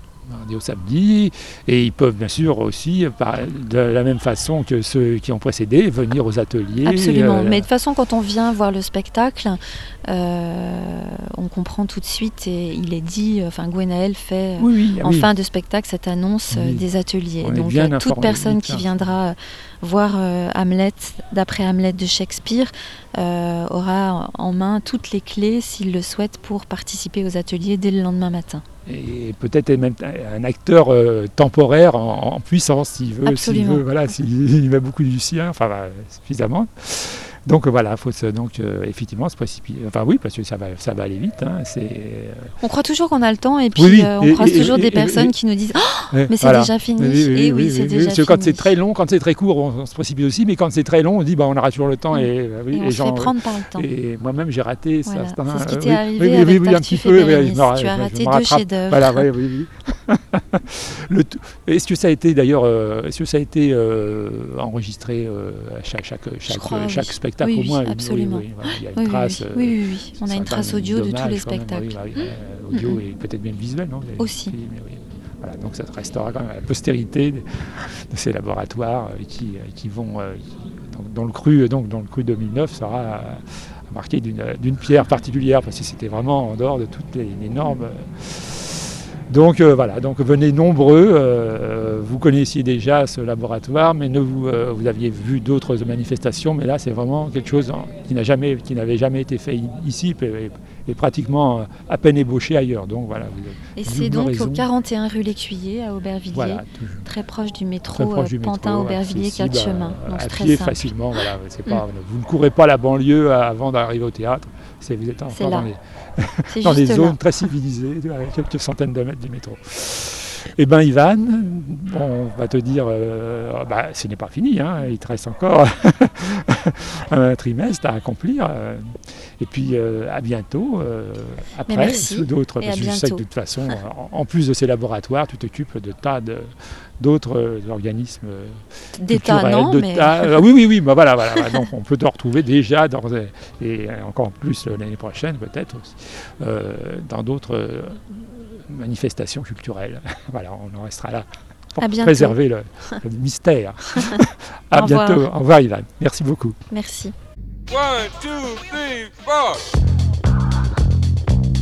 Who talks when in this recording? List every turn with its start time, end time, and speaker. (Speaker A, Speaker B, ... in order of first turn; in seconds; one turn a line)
Speaker A: 0.3-7.7
Speaker B: 6.8-28.6
Speaker A: 14.6-15.3
Speaker A: 16.5-16.8
Speaker A: 17.4-19.1
Speaker A: 28.9-42.5
Speaker B: 33.2-33.8
Speaker B: 42.6-48.7
Speaker A: 43.8-45.3
Speaker A: 46.1-104.7
Speaker B: 52.1-53.9
Speaker B: 55.1-59.2
Speaker B: 66.5-72.0
Speaker B: 72.7-73.0
Speaker B: 74.2-74.5
Speaker B: 103.8-110.9
Speaker A: 106.3-107.1
Speaker A: 107.9-156.6
Speaker B: 115.3-115.7
Speaker B: 116.5-117.2
Speaker B: 131.7-133.2
Speaker B: 139.0-140.3
Speaker B: 141.3-141.6
Speaker B: 151.8-152.3
Speaker B: 153.9-154.2
Speaker B: 154.7-155.2
Speaker B: 156.7-157.1
Speaker C: 157.7-159.6